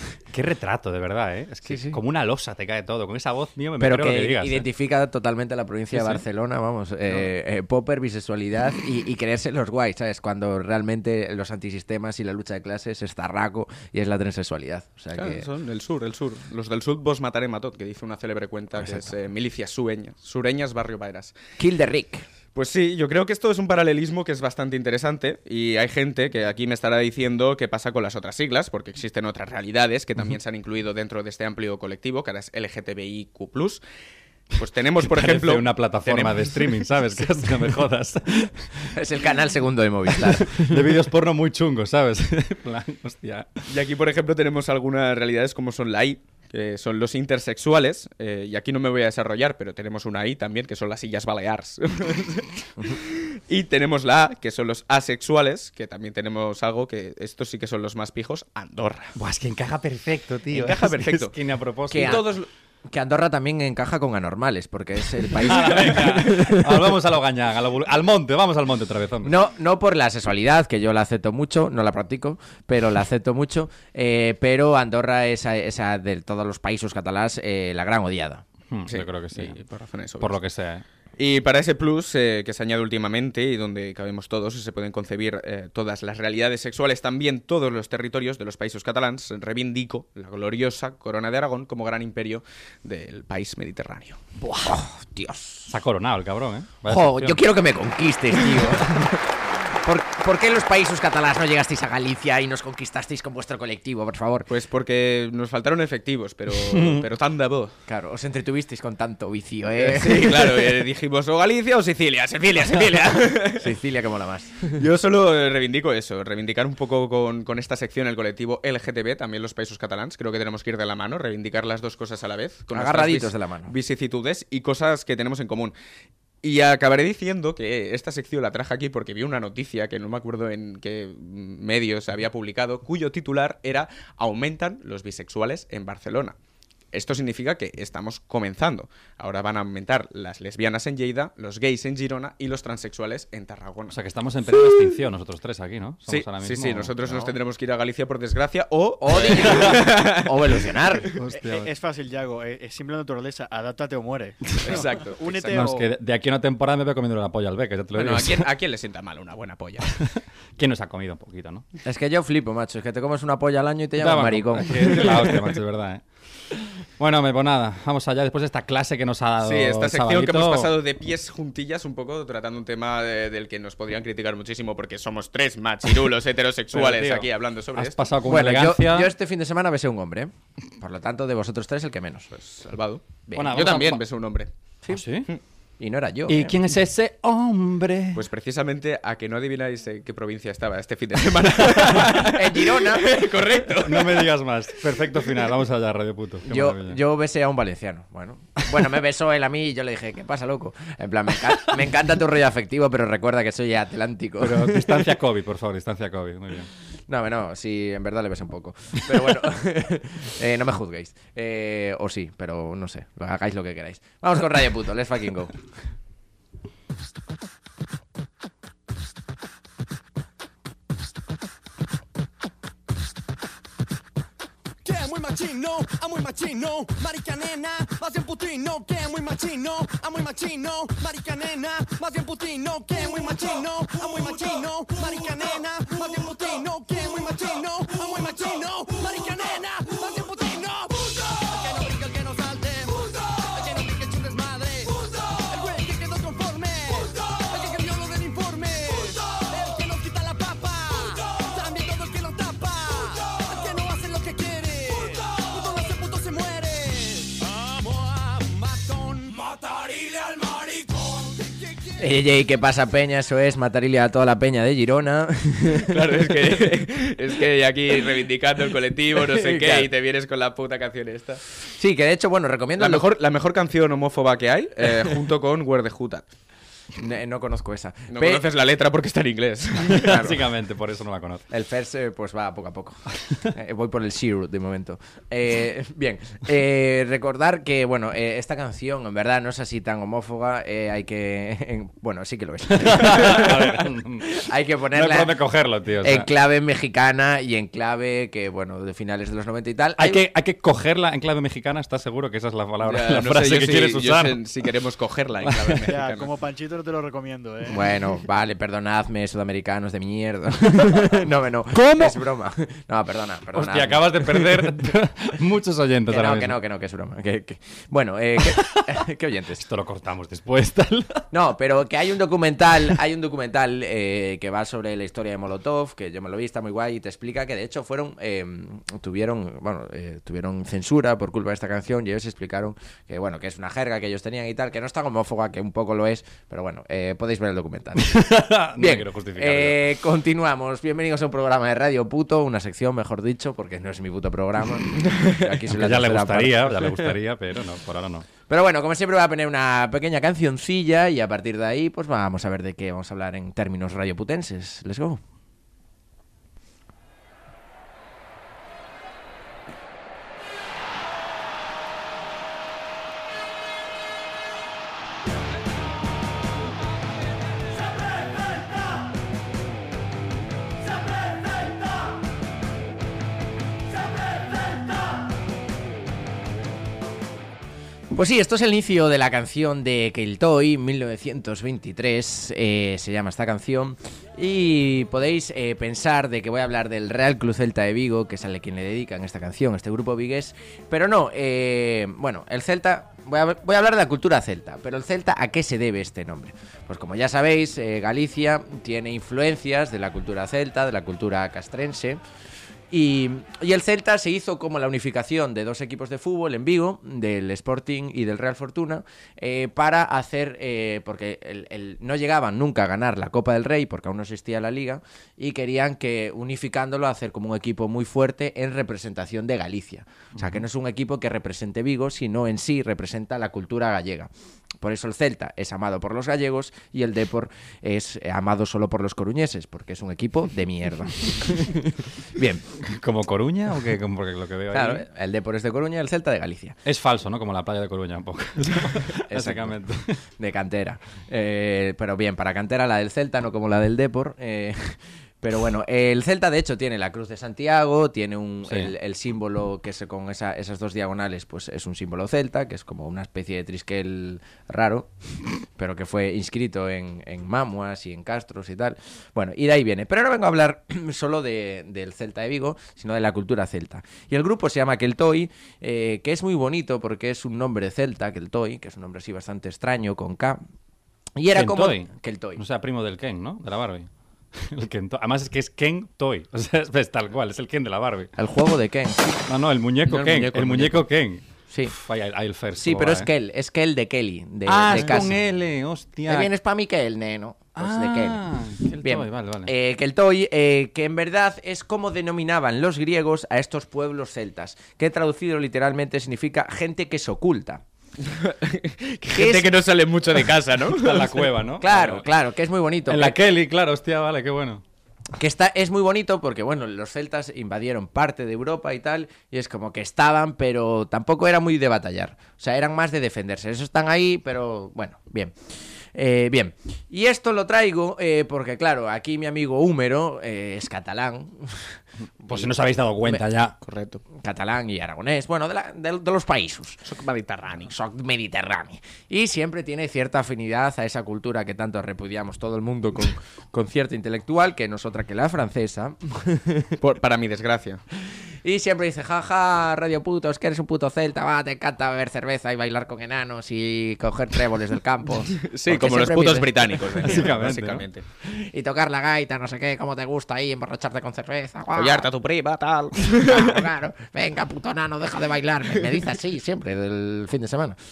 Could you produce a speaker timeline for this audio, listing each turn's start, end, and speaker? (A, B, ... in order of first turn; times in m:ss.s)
0:00.3-0:04.6 A
0:01.6-0:02.0 B
0:03.8-0:15.5 B
0:05.9-0:06.2 A
0:15.1-0:21.4 C
0:18.8-0:19.1 B
0:21.6-0:22.2 B
0:22.5-0:33.8 C
0:34.6-0:36.8 C
0:35.0-0:39.0 A
0:38.9-0:41.0 B
0:40.1-0:43.5 A
0:43.7-0:59.1 C
0:59.2-1:02.2 A
1:00.5-1:01.3 C
1:01.9-1:07.0 B
1:01.9-1:02.4 C
1:05.3-1:09.4 A
1:09.2-1:18.4 B
1:18.7-1:19.6 A
1:18.9-1:20.4 C
1:20.2-1:20.8 A
1:21.2-1:34.2 C
1:34.4-1:34.8 A
1:34.6-1:35.7 B
1:35.7-1:37.4 A
1:36.8-1:44.5 B
1:44.5-1:47.7 C
1:46.6-1:47.1 A
1:47.9-1:50.8 B
1:49.8-1:53.7 C
1:53.4-1:54.8 B
1:54.7-2:05.7 C
2:02.7-2:03.7 B
2:06.4-2:16.4 C
2:16.9-2:24.0 C
2:23.9-2:27.4 A
2:26.1-2:31.0 C
2:29.0-2:31.1 B
2:29.5-2:29.8 A
2:31.1-2:31.7 A
2:31.4-2:35.9 D
2:34.5-2:34.8 A
2:34.6-2:35.6 C
2:35.5-2:38.5 A
2:37.9-2:39.9 C
2:40.0-2:41.6 A
2:41.8-2:45.5 B
2:44.0-2:46.0 A
2:47.0-2:50.8 A
2:49.4-2:58.0 C
2:56.7-2:59.1 A
2:58.2-3:02.3 B
3:02.3-3:04.5 C
3:03.3-3:03.9 B
3:03.3-3:04.0 A
3:04.9-3:05.3 A
3:05.8-3:06.6 B
3:06.3-3:08.2 A
3:08.1-3:14.3 C
3:12.0-3:13.4 B
3:13.8-3:17.0 A
3:16.5-3:25.1 B
3:24.4-3:26.7 A
3:27.1-3:35.5 B
3:44.8-4:19.6 E
4:20.2-4:22.0 E
4:22.0-4:26.7 B
4:25.8-4:31.4 C
4:29.1-4:29.9 B
4:31.7-4:33.1 B
4:32.8-4:36.3 C
4:34.8-4:35.2 B
4:36.9-4:38.4 B
4:38.1-4:40.4 C
4:39.8-4:41.4 A
4:41.5-4:55.4 B
4:52.7-4:56.3 A
4:56.0-5:00.2 B
5:00.0-5:04.4 A
5:02.8-5:06.3 C
5:05.4-5:05.8 A
5:05.9-5:07.9 D
5:07.7-5:14.9 B
5:11.7-5:12.2 A
5:13.5-5:16.6 A
5:16.1-5:19.6 B
5:18.4-5:18.8 A
5:19.6-5:21.3 A
5:21.3-5:38.2 B
5:38.0-5:39.8 A
5:38.7-5:47.1 B
5:45.7-5:48.3 A
5:48.5-5:55.2 B
6:18.1-6:42.2 B
6:42.9-7:04.3 B
7:00.4-7:00.6 A
7:04.8-7:12.7 B
7:12.8-7:15.0 A
7:14.7-7:16.8 B
7:16.8-7:20.2 A
7:19.1-7:19.8 B
7:20.4-7:50.6 B
7:51.4-7:52.6 B
7:51.5-7:58.3 A
7:58.4-7:59.4 B
7:59.5-8:03.3 A
8:00.0-8:01.0 C
8:02.8-8:05.4 B
8:04.6-8:06.5 A
8:06.3-8:08.4 B
8:07.8-8:09.7 A
8:09.0-8:17.8 B
8:18.2-8:21.5 C
8:19.3-8:19.7 B
8:20.9-8:22.2 A
8:21.8-8:23.4 B
8:23.1-8:24.8 A
8:25.4-8:35.6 B
8:36.1-8:42.0 B
8:42.4-8:43.8 A
8:43.8-8:44.2 C
8:44.3-8:47.0 B
8:47.0-8:47.9 C
8:47.8-8:57.0 B
8:57.0-8:58.0 C
8:58.6-9:07.5 B
9:05.6-9:08.2 C
9:07.2-9:08.0 A
9:08.4-9:12.3 B
9:11.9-9:13.8 C
9:13.3-9:18.0 B